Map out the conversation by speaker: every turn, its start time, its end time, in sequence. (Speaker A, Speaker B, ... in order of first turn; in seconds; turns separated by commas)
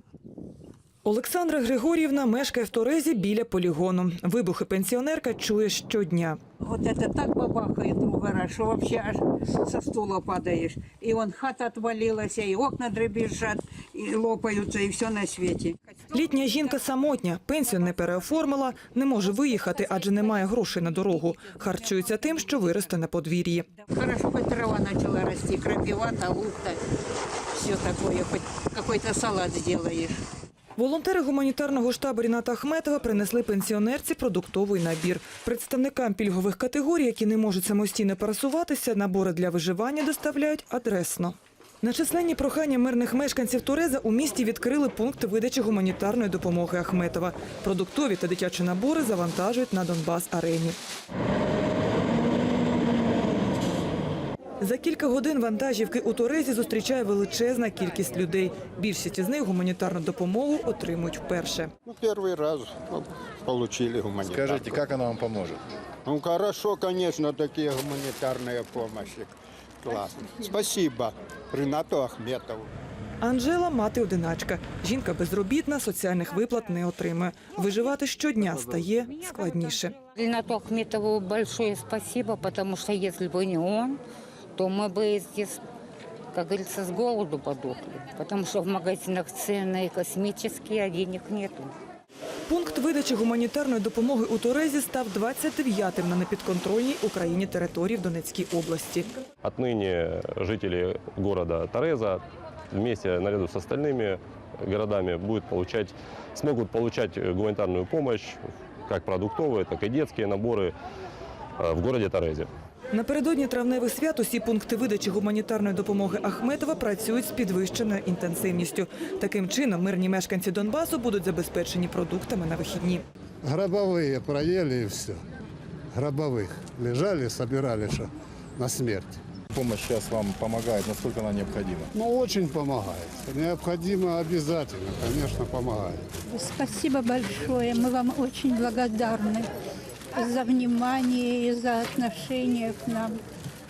Speaker A: 1.0-6.4, Speaker B: 6.6-15.9, Speaker A: 16.1-23.7, Speaker B: 20.0-21.2, Speaker B: 22.0-22.4, Speaker B: 23.9-26.8, Speaker B: 27.5-30.2, Speaker A: 30.8-50.8, Speaker A: 54.6-61.7, Speaker C: 61.9-64.8, Speaker D: 64.2-65.6, Speaker C: 66.0-72.7, Speaker A: 73.2-80.0, Speaker E: 80.1-84.0, Speaker E: 84.5-85.6, Speaker E: 86.3-91.7, Speaker A: 92.5-99.2, Speaker F: 99.4-110.7, Speaker F: 111.6-112.5, Speaker A: 112.9-123.0, Speaker G: 123.4-125.2, Speaker G: 125.9-129.2, Speaker D: 129.5-131.9, Speaker G: 131.9-136.1, Speaker H: 136.3-139.5, Speaker H: 140.1-143.2